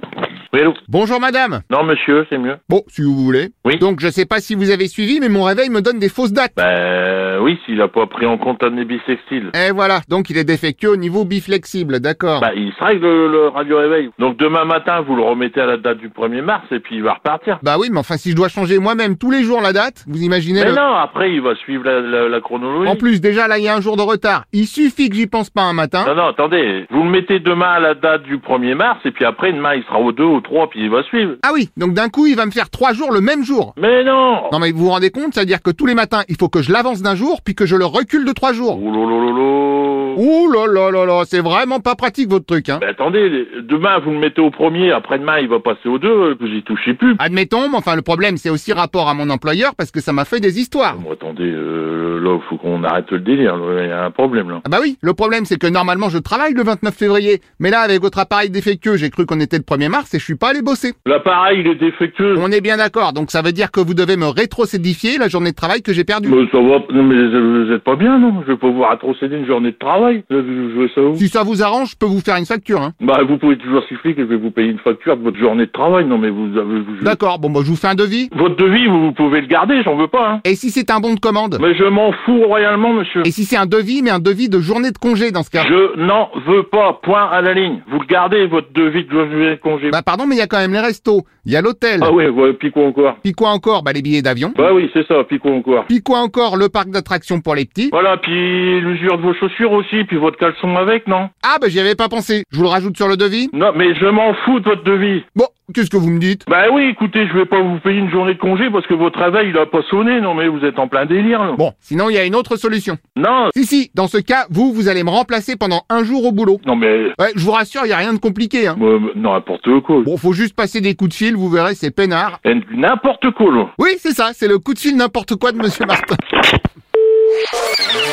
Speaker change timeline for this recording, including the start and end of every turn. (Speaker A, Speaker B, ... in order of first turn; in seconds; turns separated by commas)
Speaker A: 0.5-0.8, Speaker B: 0.9-1.6, Speaker A: 1.7-2.6, Speaker B: 2.7-6.5, Speaker A: 6.5-9.5, Speaker B: 9.5-12.5, Speaker A: 12.4-17.6, Speaker B: 17.6-20.8, Speaker A: 20.6-23.0, Speaker B: 22.8-26.1, Speaker A: 26.0-31.4, Speaker B: 31.4-33.7, Speaker A: 33.8-34.5, Speaker B: 34.5-38.8, Speaker A: 38.7-40.2, Speaker B: 40.1-42.8, Speaker A: 42.8-47.2, Speaker B: 47.2-51.0, Speaker A: 50.9-54.6, Speaker B: 54.6-61.0, Speaker A: 61.0-62.4, Speaker B: 62.3-66.4, Speaker A: 66.2-71.2, Speaker B: 71.2-72.9, Speaker A: 73.0-77.2, Speaker B: 77.0-78.3, Speaker A: 78.3-80.4, Speaker B: 80.4-81.6, Speaker A: 81.6-83.3, Speaker B: 83.2-85.7, Speaker A: 85.5-90.0, Speaker B: 89.9-92.1, Speaker A: 92.0-93.2, Speaker B: 93.2-94.6, Speaker A: 94.5-95.9, Speaker B: 95.9-97.9, Speaker A: 97.9-101.3, Speaker B: 101.4-103.5, Speaker A: 103.5-105.2, Speaker B: 105.3-106.4, Speaker A: 106.5-111.6, Speaker B: 111.5-113.0, Speaker A: 113.2-113.5, Speaker B: 113.5-116.6, Speaker A: 116.6-117.2, Speaker B: 117.2-118.8, Speaker A: 118.8-120.1, Speaker B: 120.0-122.4, Speaker A: 122.4-123.7, Speaker B: 123.8-126.2